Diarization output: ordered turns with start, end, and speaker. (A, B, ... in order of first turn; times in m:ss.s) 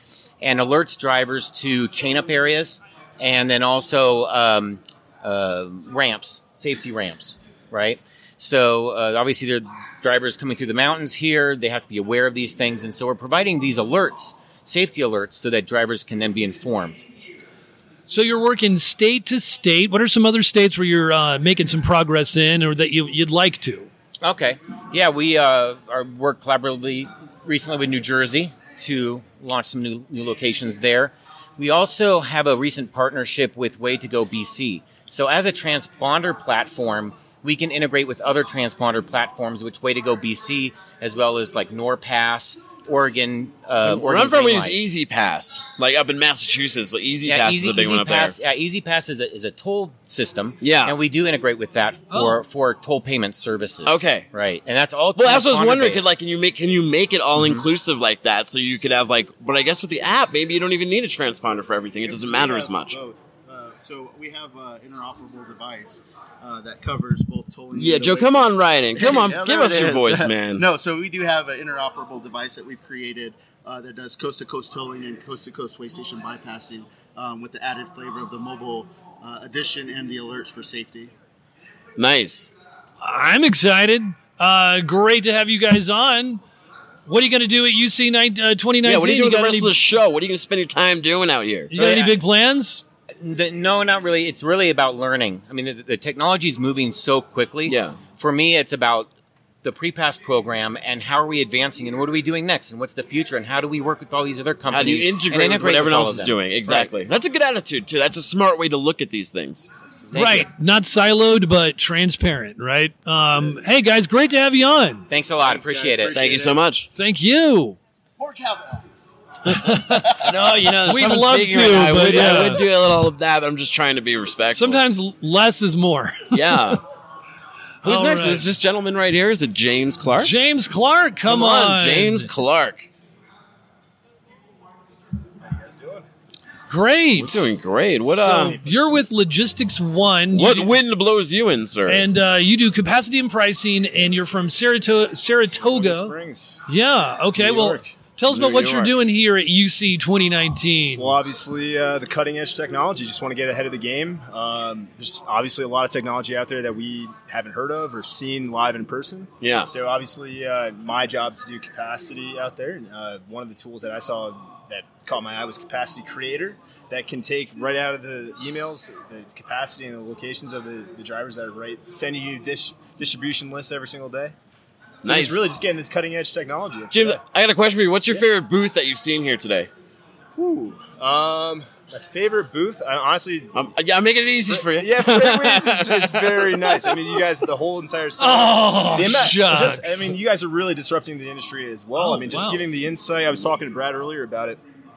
0:00.4-0:17.0 A
0:18.1-0:23.9 B
0:24.2-0:44.8 A
0:43.8-0:48.4 C
0:47.2-0:56.1 A
0:50.6-0:51.0 C
0:52.1-0:52.4 B
0:53.8-0:54.3 C
0:55.2-1:03.0 C
0:57.4-0:57.6 A
1:02.1-1:21.1 D
1:07.7-1:10.7 C
1:22.0-1:22.5 C
1:23.0-1:26.4 B
1:27.1-1:29.7 B
1:28.8-1:31.7 C
1:31.7-1:32.8 B
1:31.8-1:32.1 A
1:33.2-1:39.1 A
1:37.7-1:38.0 C
1:39.6-1:46.9 A
1:44.7-1:49.7 C
1:50.1-1:50.5 A
1:50.1-1:55.0 B
1:55.1-1:56.2 A
1:55.4-1:56.7 D
1:56.1-1:56.9 C
1:56.9-1:57.8 B
1:58.2-1:58.9 D
1:59.5-2:00.1 B
1:59.9-2:00.2 D
2:00.2-2:04.8 C
2:00.9-2:02.6 B
2:04.5-2:06.7 B
2:06.3-2:06.8 C
2:07.8-2:10.3 C
2:07.8-2:08.5 B
2:10.2-2:12.3 B
2:11.3-2:12.9 C
2:15.4-2:16.0 E
2:16.7-2:17.5 B
2:17.2-2:18.6 C
2:18.0-2:20.7 B
2:18.6-2:18.9 E
2:20.3-2:22.0 C
2:21.9-2:26.1 B
2:25.5-2:26.6 E
2:26.7-2:31.2 B
2:27.4-2:27.9 E
2:28.3-2:28.9 C
2:31.0-2:54.4 E
2:39.4-2:39.7 C
2:55.0-2:57.2 E
2:55.0-2:55.4 C
2:56.9-2:59.7 C
3:00.4-3:03.6 E
3:03.5-3:07.0 C
3:04.5-3:14.6 E
3:08.2-3:10.1 B
3:12.0-3:12.6 B